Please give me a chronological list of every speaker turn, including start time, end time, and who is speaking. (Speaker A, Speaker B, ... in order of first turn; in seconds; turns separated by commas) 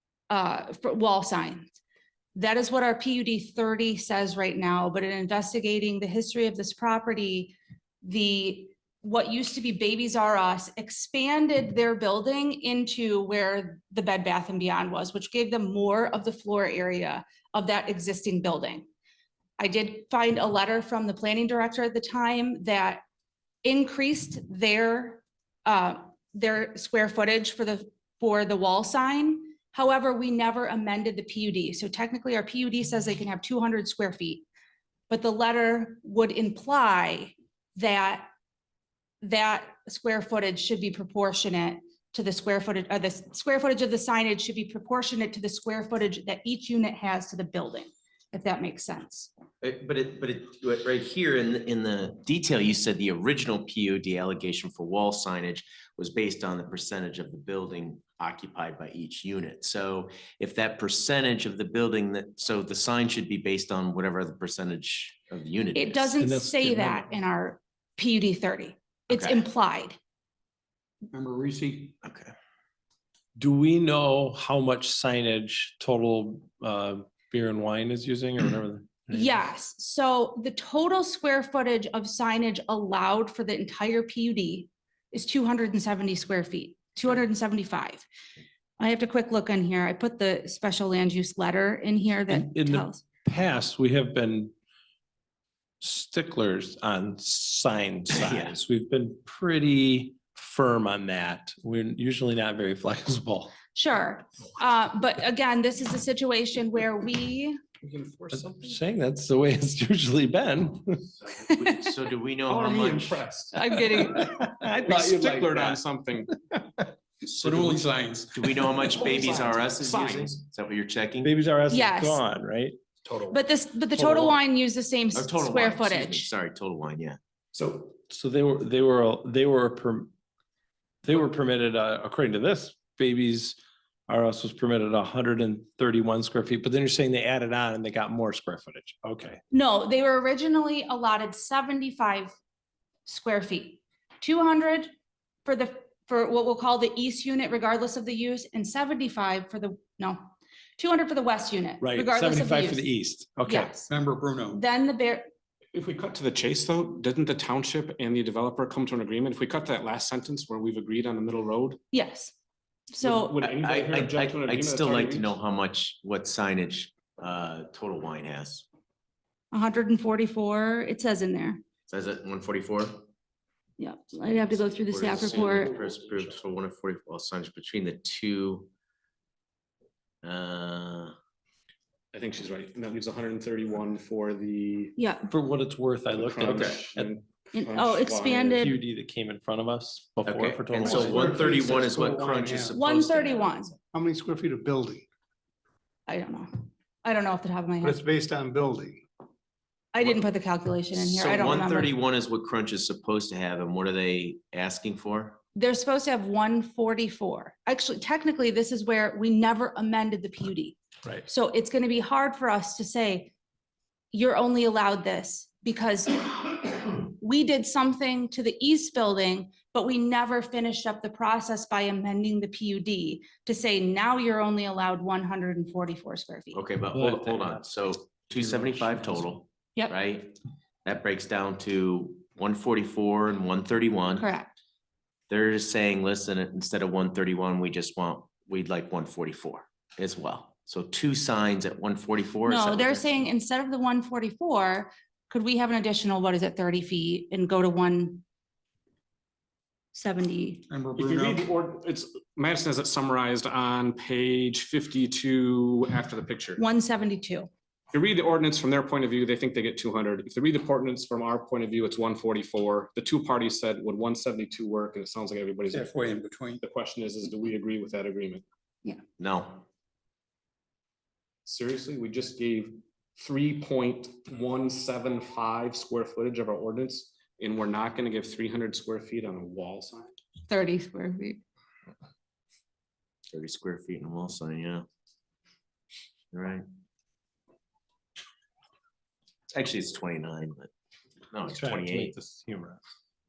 Speaker A: 0.3-1.7, Speaker A: 2.4-18.9, Speaker A: 19.6-23.0, Speaker A: 23.6-34.4, Speaker A: 35.1-38.3, Speaker A: 39.2-49.3, Speaker B: 49.6-66.1, Speaker A: 65.7-70.0, Speaker C: 66.2-67.0, Speaker B: 69.1-69.4, Speaker D: 71.1-71.9, Speaker B: 72.0-72.3, Speaker C: 73.4-79.4, Speaker A: 79.1-88.0, Speaker A: 88.8-93.0, Speaker C: 92.3-94.5, Speaker C: 95.8-103.5, Speaker B: 98.1-98.5, Speaker A: 103.7-107.6, Speaker E: 107.8-108.8, Speaker C: 108.3-111.1, Speaker A: 111.4-111.8, Speaker B: 111.5-113.2, Speaker E: 112.5-113.5, Speaker A: 113.5-114.3, Speaker C: 113.9-115.8, Speaker E: 114.7-116.3, Speaker D: 114.9-115.6, Speaker D: 117.3-118.9, Speaker B: 117.4-121.3, Speaker E: 118.8-120.4, Speaker C: 121.2-122.8, Speaker A: 121.7-122.2, Speaker E: 123.0-123.4, Speaker A: 123.3-126.3, Speaker C: 123.9-124.4, Speaker B: 125.1-127.2, Speaker E: 127.5-127.9, Speaker C: 127.9-130.1, Speaker C: 131.0-133.6, Speaker C: 134.1-139.4, Speaker A: 139.5-142.3, Speaker A: 143.1-144.9, Speaker A: 145.4-152.9, Speaker C: 151.8-153.7, Speaker A: 153.4-153.9, Speaker D: 153.9-154.6, Speaker A: 154.5-155.3, Speaker E: 155.7-161.8, Speaker A: 161.9-162.3, Speaker A: 162.9-163.4, Speaker E: 163.0-165.3, Speaker B: 163.4-168.6, Speaker A: 169.5-171.6, Speaker B: 171.9-173.0, Speaker A: 173.8-175.7, Speaker B: 174.9-178.7, Speaker B: 180.2-181.1, Speaker E: 182.1-184.9, Speaker A: 185.0-185.3, Speaker C: 185.3-187.2, Speaker E: 186.1-188.7, Speaker B: 186.4-186.8, Speaker A: 187.5-188.8, Speaker C: 188.6-191.5, Speaker B: 190.2-193.8, Speaker D: 191.1-192.7, Speaker A: 192.7-193.8, Speaker F: 193.9-195.0, Speaker A: 196.1-198.0, Speaker F: 197.8-199.0, Speaker A: 199.9-201.9, Speaker B: 200.9-205.4, Speaker A: 205.5-213.3, Speaker A: 214.1-226.6, Speaker B: 226.5-234.3, Speaker C: 226.9-227.7, Speaker C: 228.3-229.3, Speaker A: 234.2-234.6, Speaker B: 235.3-243.3, Speaker A: 242.4-248.2, Speaker A: 249.9-250.7, Speaker D: 250.7-251.5, Speaker E: 250.9-256.6, Speaker A: 256.6-257.5, Speaker E: 257.9-266.0, Speaker D: 265.7-266.6, Speaker E: 266.6-268.4, Speaker B: 269.2-269.6, Speaker E: 271.4-280.1, Speaker A: 280.5-281.4, Speaker B: 283.3-284.9, Speaker B: 286.3-286.6, Speaker B: 289.5-290.7, Speaker B: 291.3-292.1, Speaker C: 291.4-292.8